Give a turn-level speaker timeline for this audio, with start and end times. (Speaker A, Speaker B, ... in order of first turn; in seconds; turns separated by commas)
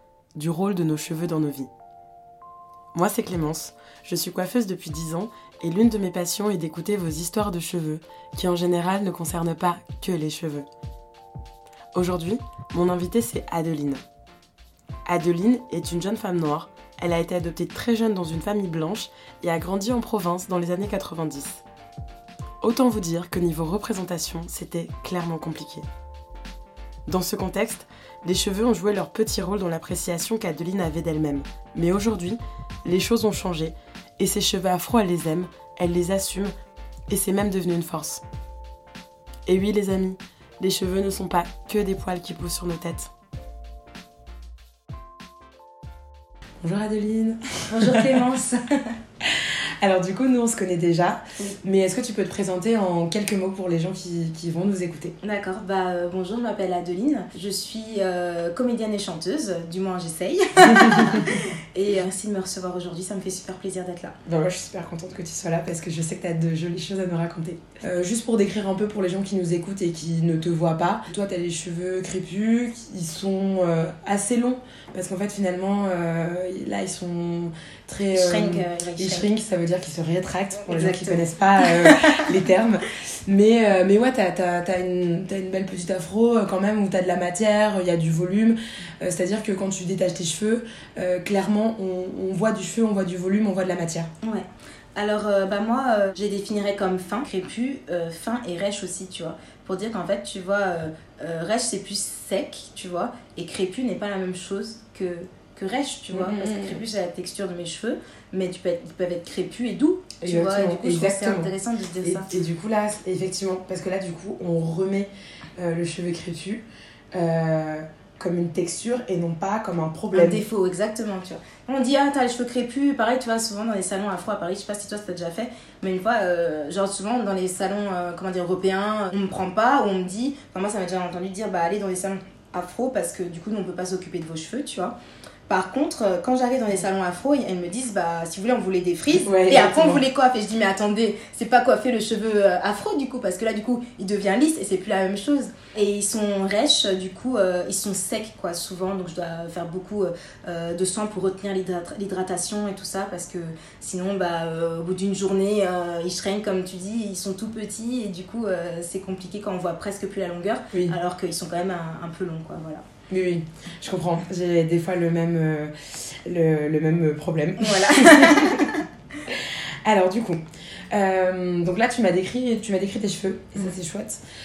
Speaker A: 0.3-1.7, Speaker A: 2.9-10.7, Speaker A: 11.9-14.0, Speaker A: 15.1-21.6, Speaker A: 22.6-25.9, Speaker A: 27.1-36.5, Speaker A: 37.1-38.2, Speaker A: 39.5-43.1, Speaker A: 46.6-48.2, Speaker B: 47.7-48.8, Speaker A: 49.2-55.1, Speaker B: 55.2-64.1, Speaker A: 60.8-61.1, Speaker A: 64.2-94.1, Speaker B: 78.1-79.3, Speaker B: 80.6-82.2, Speaker B: 94.2-112.3, Speaker A: 106.1-106.8, Speaker A: 110.2-111.5, Speaker A: 112.0-120.4, Speaker B: 120.1-134.9, Speaker B: 135.5-162.8, Speaker A: 139.2-140.0, Speaker A: 163.1-168.7, Speaker B: 167.6-168.8, Speaker A: 169.3-170.4, Speaker A: 170.9-174.2